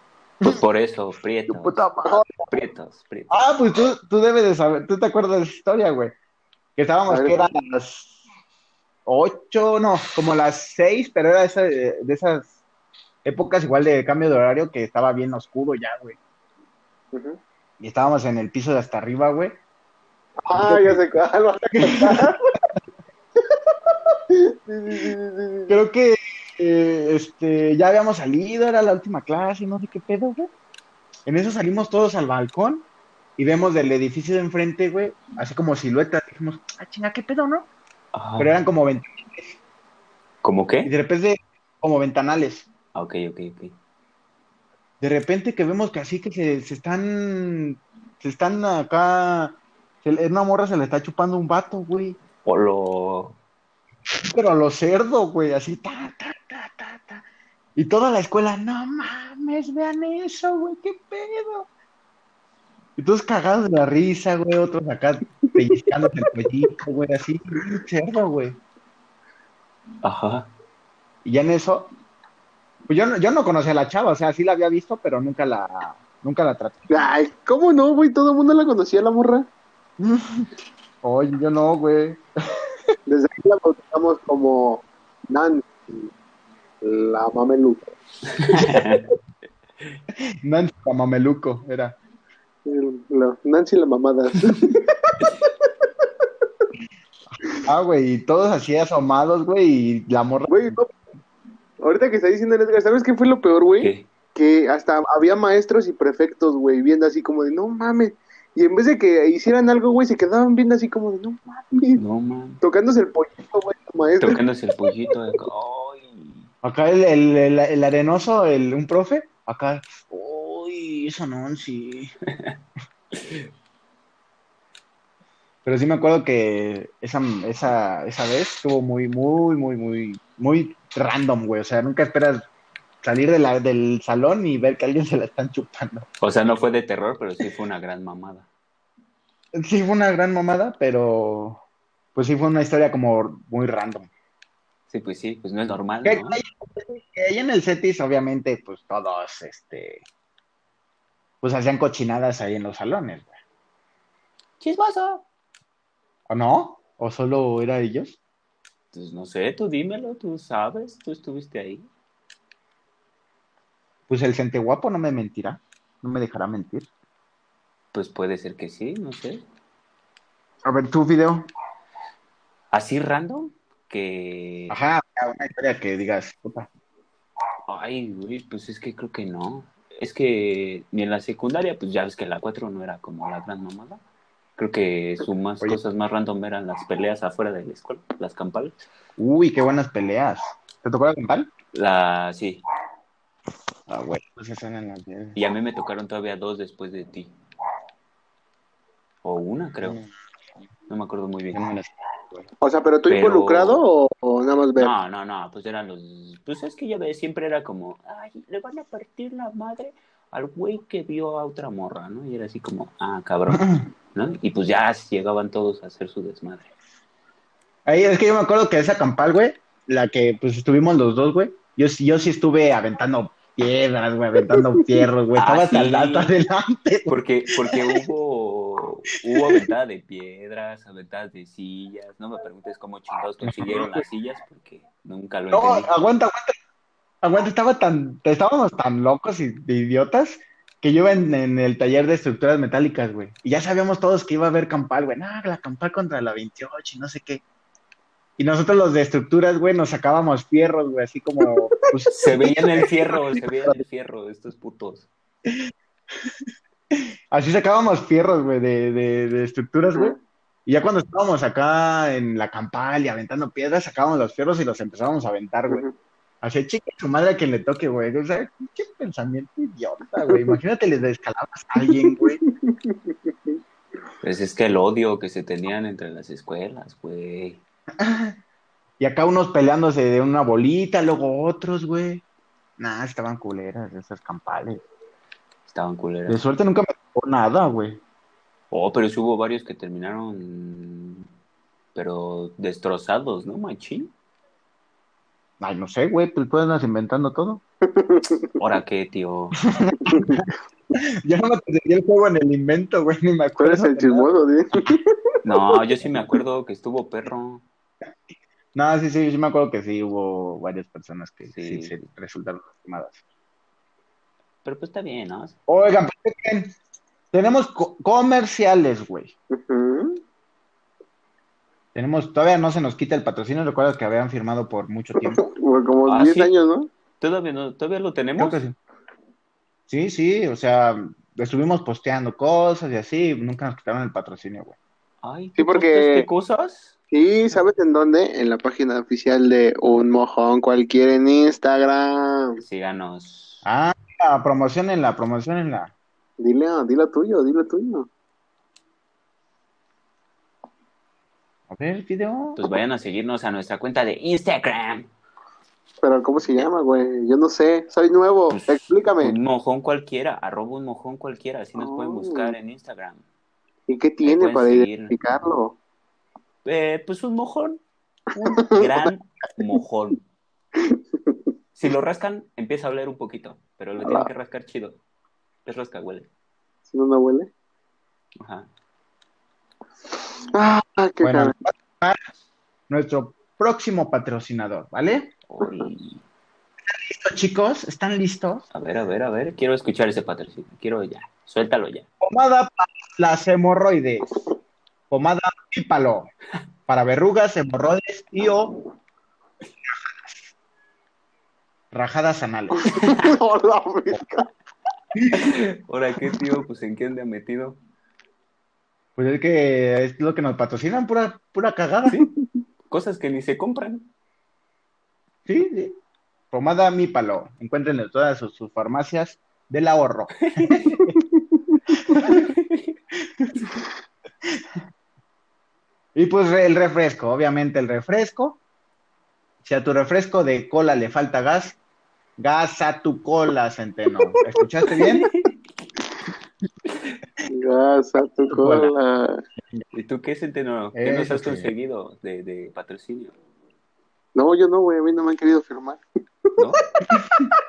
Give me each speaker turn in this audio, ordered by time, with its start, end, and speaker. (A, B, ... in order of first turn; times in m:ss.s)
0:00.4-0:01.9 A
0:01.5-0:02.3 B
0:02.4-0:03.3 A
0:03.3-0:06.1 B
0:06.8-0:08.2 B
0:07.1-0:07.5 C
0:09.1-0:12.5 B
0:13.2-0:16.2 B
0:17.1-0:17.4 C
0:17.8-0:19.6 B
0:20.5-0:22.4 C
0:20.5-0:21.0 B
0:21.8-0:22.3 B
0:24.3-0:25.8 C
0:25.7-0:30.5 B
0:31.3-0:37.7 B
0:38.1-0:38.6 A
0:38.4-0:39.6 B
0:40.4-0:40.9 A
0:40.8-0:42.7 B
0:43.0-0:43.8 A
0:45.0-0:52.2 B
0:52.4-0:53.4 A
0:54.3-0:57.2 B
0:57.8-1:01.7 B
1:03.0-1:08.6 B
1:10.0-1:10.5 A
1:11.2-1:11.9 B
1:12.9-1:16.9 B
1:16.9-1:19.5 C
1:20.0-1:20.5 B
1:21.0-1:22.2 B
1:23.1-1:26.1 C
1:26.8-1:27.9 C
1:28.4-1:29.1 A
1:30.4-1:32.0 B
1:32.6-1:35.5 C
1:37.6-1:40.8 B
1:40.5-1:40.9 C
1:41.8-1:52.0 C
1:43.8-1:44.1 A
1:51.9-1:52.6 A
1:52.6-1:54.4 C
1:54.2-1:56.5 A
1:56.6-2:02.1 B
2:03.1-2:03.5 A
2:05.6-2:12.4 B
2:13.0-2:16.1 B
2:16.2-2:18.5 A
2:19.6-2:21.6 B
2:22.2-2:24.1 B
2:24.9-2:26.4 A
2:26.0-2:30.0 B
2:31.4-2:33.4 B
2:34.6-2:35.2 A
2:36.3-2:38.2 B
2:38.9-2:41.9 A
2:44.1-2:46.9 B
2:47.9-2:49.4 A
2:50.6-2:51.5 B
2:52.7-2:54.8 A
2:54.7-2:56.7 B
2:57.7-3:04.0 A
3:04.6-3:08.8 A
3:09.2-3:11.5 B
3:11.7-3:12.6 A
3:13.9-3:15.4 B
3:15.4-3:17.3 A
3:19.2-3:20.0 A
3:19.8-3:20.1 B
3:20.9-3:21.6 A
3:21.5-3:22.5 B
3:22.6-3:25.0 C
3:23.1-3:23.8 A
3:24.8-3:36.7 A
3:33.5-3:33.8 B
3:37.9-3:47.2 B
3:44.5-3:45.0 C
3:45.4-3:46.3 A
3:47.1-3:56.0 A
3:53.4-3:54.0 B
3:55.5-3:56.5 B
3:57.2-4:07.4 B
4:08.4-4:13.8 B
4:12.1-4:15.1 A
4:16.9-4:25.8 B
4:26.4-4:32.4 B
4:31.9-4:33.5 C
4:34.2-4:37.6 A
4:38.0-4:38.4 B
4:39.0-4:42.2 B
4:42.8-4:44.8 B
4:45.7-4:46.4 A
4:46.3-4:48.0 B
4:48.7-4:51.3 A
4:52.0-4:54.1 A
4:55.6-4:57.6 B
4:58.0-4:58.5 C
4:58.6-4:59.6 A
4:59.8-5:00.4 B
5:00.0-5:00.4 C
5:01.2-5:04.3 B
5:03.6-5:05.1 C
5:05.4-5:07.6 A
5:08.8-5:13.2 B
5:11.5-5:12.0 A
5:14.6-5:15.6 A
5:15.7-5:16.7 B
5:17.3-5:19.3 B
5:19.5-5:20.2 C
5:22.0-5:25.4 B
5:25.2-5:26.9 C
5:26.0-5:26.6 A
5:27.2-5:28.6 A
5:28.4-5:28.8 B
5:29.9-5:34.8 B
5:35.2-5:37.0 A
5:35.6-5:36.3 C
5:37.1-5:42.6 C
5:42.6-5:43.6 A
5:43.6-5:45.9 B
5:46.4-5:48.1 C
5:51.7-5:52.6 B
5:52.6-5:55.1 A
5:56.0-5:59.4 C
5:58.5-6:03.2 A
6:01.8-6:02.5 C
6:03.9-6:05.8 C
6:04.2-6:05.2 A
6:06.6-6:07.8 A
6:08.3-6:10.2 A
6:10.9-6:11.4 C
6:11.8-6:15.0 A
6:14.0-6:14.3 C
6:15.6-6:16.3 A
6:16.9-6:17.5 C
6:18.4-6:18.7 A
6:20.5-6:21.5 C
6:21.2-6:22.2 B
6:22.9-6:25.4 B
6:25.5-6:26.2 A
6:25.6-6:25.9 C
6:26.9-6:28.7 B
6:28.7-6:32.1 A
6:32.2-6:34.3 B
6:35.1-6:36.3 B
6:36.9-6:38.7 B
6:41.9-6:43.0 B
6:42.8-6:44.5 C
6:45.2-6:45.4 B
6:45.4-6:47.8 A
6:49.2-6:52.2 B
6:52.9-6:54.1 A
6:55.5-6:56.0 B
6:56.5-7:01.1 B
7:00.4-7:01.0 A
7:02.1-7:02.4 B
7:02.2-7:03.0 A
7:03.5-7:03.8 A
7:06.2-7:08.6 B
7:09.6-7:11.8 B
7:12.4-7:15.3 B
7:14.9-7:15.5 A
7:17.5-7:19.4 C
7:18.5-7:18.9 B
7:19.9-7:23.4 A
7:20.9-7:21.7 B
7:24.4-7:26.0 C
7:27.1-7:27.5 B